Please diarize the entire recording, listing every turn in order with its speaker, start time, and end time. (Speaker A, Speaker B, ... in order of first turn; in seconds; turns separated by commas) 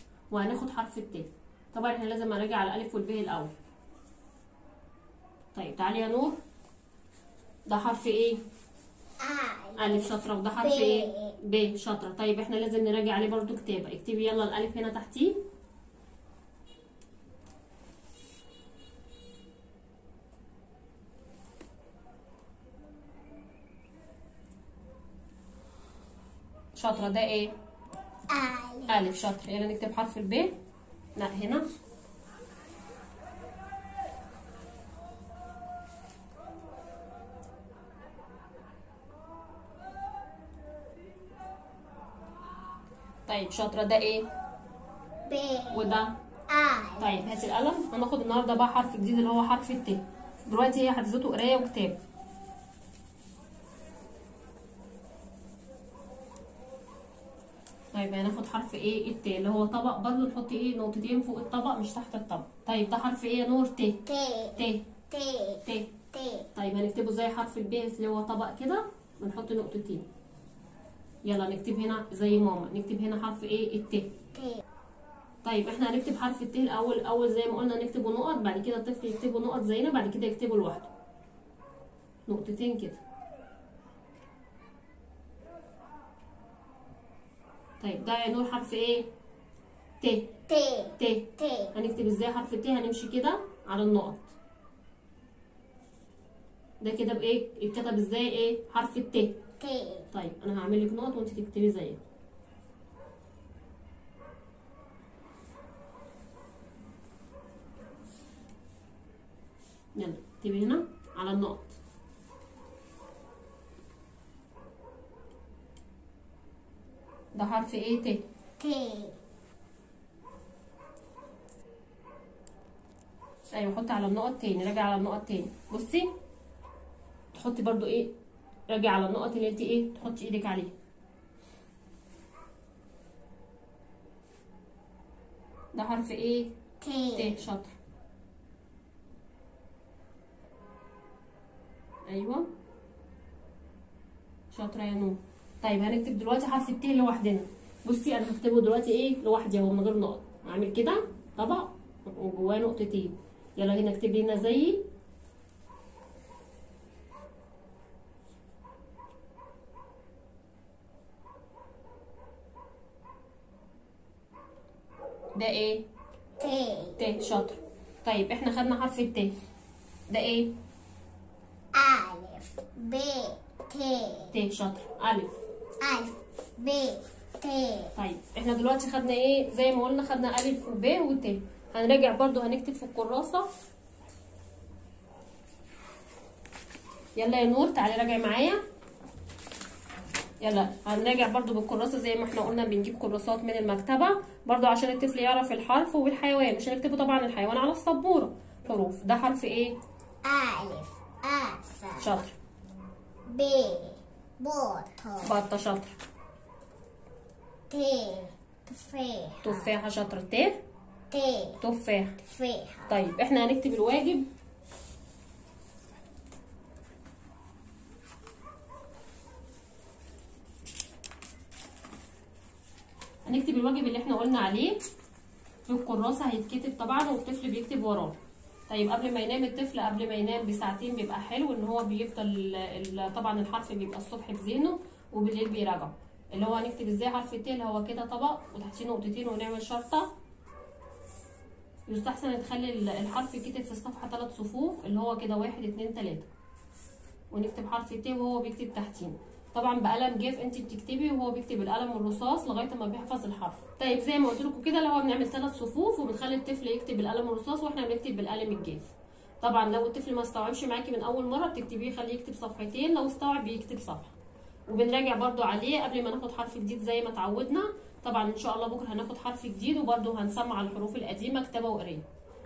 Speaker A: 0.3-3.5, Speaker A: 5.5-6.4, Speaker A: 7.7-8.4, Speaker B: 9.2-11.3, Speaker A: 9.8-15.4, Speaker A: 26.7-27.5, Speaker B: 28.3-29.0, Speaker A: 28.9-30.5, Speaker A: 31.1-31.6, Speaker A: 43.3-44.2, Speaker B: 45.2-47.2, Speaker A: 45.7-46.1, Speaker A: 47.0-52.0, Speaker A: 57.9-64.9, Speaker B: 64.0-66.5, Speaker A: 65.6-65.9, Speaker A: 66.5-70.0, Speaker A: 71.2-74.1, Speaker B: 74.3-74.6, Speaker A: 75.4-80.9, Speaker A: 82.3-83.0, Speaker A: 87.8-89.1, Speaker A: 90.0-90.4, Speaker B: 90.5-91.7, Speaker A: 91.0-94.3, Speaker A: 96.8-99.4, Speaker B: 99.6-100.1, Speaker A: 100.1-102.0, Speaker A: 109.9-111.8, Speaker A: 117.3-118.2, Speaker B: 118.6-119.2, Speaker A: 123.5-126.1, Speaker A: 127.3-128.1, Speaker A: 128.7-130.7, Speaker A: 135.7-136.5, Speaker B: 136.8-137.5, Speaker A: 137.1-137.7, Speaker A: 142.1-142.5, Speaker A: 144.5-154.8, Speaker A: 165.3-165.8, Speaker B: 166.4-167.0, Speaker A: 167.0-169.3, Speaker A: 170.1-170.5, Speaker B: 171.7-174.3, Speaker A: 174.3-175.3, Speaker B: 175.8-177.9, Speaker A: 177.9-183.4, Speaker A: 187.2-188.6, Speaker A: 190.4-199.8, Speaker B: 200.2-202.2, Speaker A: 202.0-202.3, Speaker B: 203.2-205.3, Speaker A: 205.2-205.9, Speaker B: 207.7-209.7, Speaker A: 209.4-210.6, Speaker B: 211.1-211.6, Speaker A: 211.6-212.2, Speaker B: 212.2-213.0, Speaker A: 212.9-214.2, Speaker A: 223.2-224.8, Speaker A: 225.7-228.2, Speaker A: 228.7-240.1, Speaker A: 241.9-246.3, Speaker A: 247.3-258.9, Speaker A: 259.4-264.1, Speaker A: 264.7-272.0